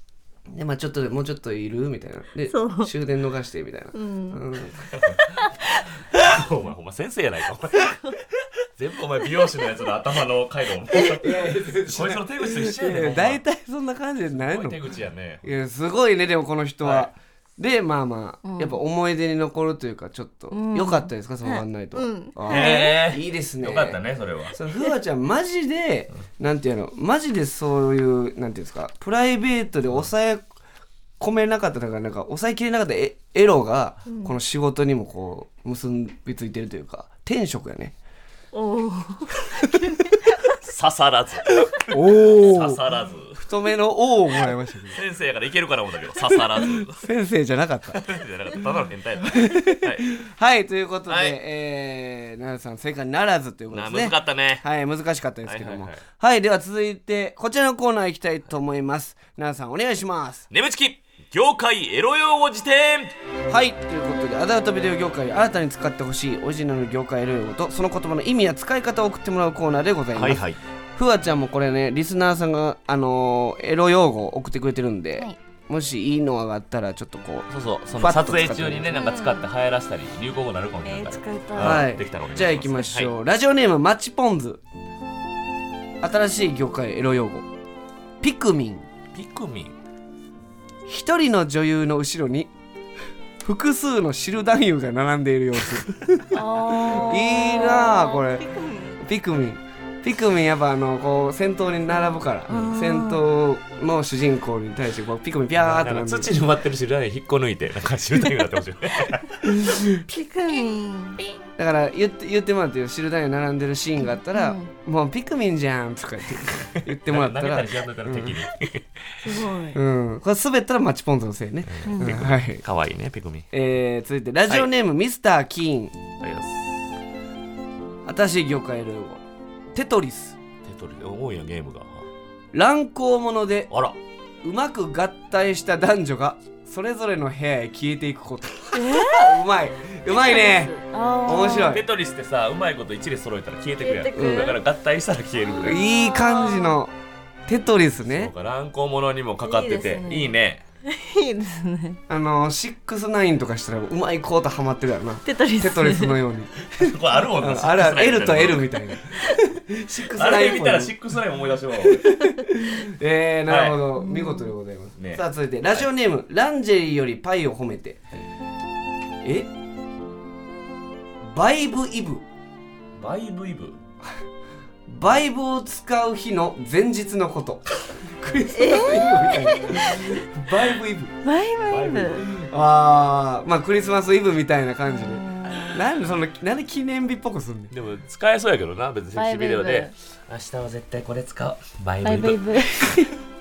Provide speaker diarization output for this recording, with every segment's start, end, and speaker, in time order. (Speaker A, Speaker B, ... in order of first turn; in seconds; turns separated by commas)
Speaker A: 0.5-4.8, Speaker B: 2.5-2.9, Speaker B: 3.9-4.4, Speaker C: 4.8-5.3, Speaker B: 5.4-5.8, Speaker C: 6.1-13.4, Speaker B: 7.8-8.2, Speaker A: 11.2-14.8, Speaker C: 14.3-15.5, Speaker A: 15.4-24.0, Speaker C: 16.8-17.1, Speaker B: 18.4-18.8, Speaker B: 20.5-23.0, Speaker C: 22.5-24.5, Speaker A: 24.5-30.4, Speaker A: 31.2-37.9, Speaker B: 34.1-34.4, Speaker B: 38.5-40.2, Speaker C: 40.6-43.4, Speaker A: 41.6-42.8, Speaker A: 43.3-45.0, Speaker C: 44.9-47.1, Speaker A: 46.6-48.0, Speaker C: 47.9-50.2, Speaker A: 49.2-60.4, Speaker C: 51.1-51.4, Speaker C: 53.7-54.7, Speaker C: 55.5-56.0, Speaker C: 60.5-63.1, Speaker A: 63.5-70.4, Speaker C: 70.1-70.6, Speaker A: 70.9-78.9, Speaker C: 77.5-83.1, Speaker B: 78.9-79.5, Speaker B: 80.8-81.8, Speaker A: 81.6-84.6, Speaker A: 86.0-87.5, Speaker A: 88.2-88.8, Speaker C: 89.1-89.7, Speaker A: 90.9-92.5, Speaker A: 93.4-98.4, Speaker B: 96.3-99.0, Speaker A: 99.0-106.3, Speaker B: 101.9-103.2, Speaker C: 102.5-102.7, Speaker C: 105.6-109.5, Speaker A: 109.5-110.0, Speaker B: 110.0-111.2, Speaker A: 111.6-118.4, Speaker B: 114.3-114.7, Speaker C: 116.9-118.9, Speaker B: 119.2-119.8, Speaker A: 119.7-122.6, Speaker C: 121.7-123.5, Speaker B: 121.8-122.2, Speaker A: 123.5-126.0, Speaker C: 126.2-126.9, Speaker A: 128.0-129.2, Speaker A: 129.7-130.4, Speaker C: 130.6-132.0, Speaker A: 132.5-133.7, Speaker C: 133.7-134.0, Speaker A: 134.4-140.7, Speaker B: 138.7-139.5, Speaker B: 140.1-141.8, Speaker A: 141.2-141.9, Speaker C: 141.7-145.8, Speaker B: 143.8-144.6, Speaker A: 144.1-144.5, Speaker B: 145.5-146.8, Speaker A: 145.6-146.9, Speaker A: 147.5-148.3, Speaker C: 148.1-150.6, Speaker B: 149.4-152.0, Speaker A: 152.1-160.9, Speaker B: 155.2-156.2, Speaker C: 156.7-158.8, Speaker C: 160.1-162.1, Speaker A: 161.8-168.0, Speaker C: 163.5-163.8, Speaker B: 163.9-164.5, Speaker C: 165.0-165.9, Speaker A: 169.2-169.5, Speaker A: 171.2-172.2, Speaker C: 173.0-173.8, Speaker A: 174.9-181.1, Speaker B: 178.5-180.2, Speaker B: 181.2-182.3, Speaker C: 181.7-182.4, Speaker A: 182.3-187.7, Speaker B: 184.9-185.6, Speaker C: 185.4-185.8, Speaker C: 187.7-193.0, Speaker B: 189.1-189.9, Speaker B: 192.0-193.1